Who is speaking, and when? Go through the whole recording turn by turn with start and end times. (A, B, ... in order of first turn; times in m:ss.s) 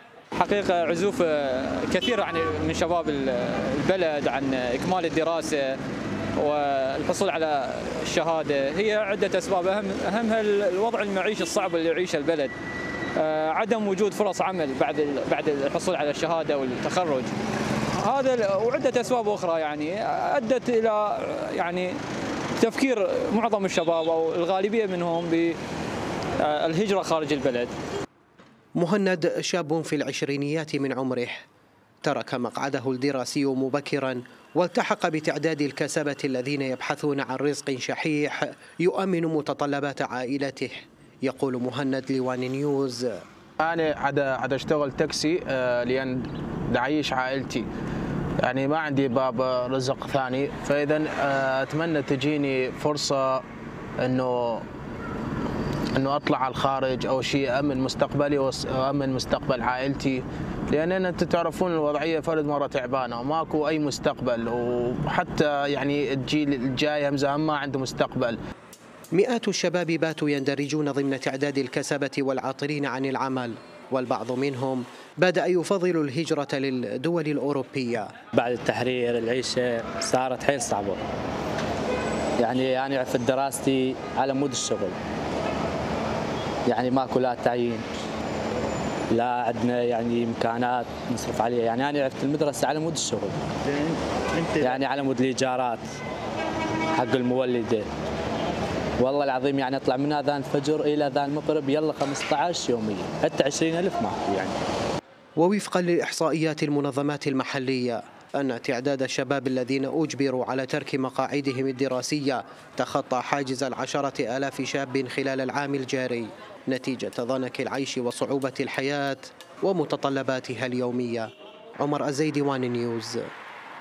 0:00.4-0:05.8 A
0:06.4-0:12.5 A
0:13.2-0:17.3 A
0:18.0-0:21.9 A
0:22.6-0:25.6 A
0:26.4-0:27.7 A
0:28.8-0:31.4 B
0:32.0-0:43.2 B
0:43.6-0:47.6 C
0:48.4-0:53.4 C
0:54.0-0:54.6 C
0:55.9-1:08.4 C
1:09.1-1:18.1 B
1:18.4-1:21.0 D
1:22.4-1:25.0 D
1:26.7-1:27.8 D
1:29.1-1:33.4 D
1:34.5-1:35.8 D
1:36.9-1:37.9 D
1:39.0-1:44.6 D
1:45.4-2:01.3 B
2:01.8-2:03.3 B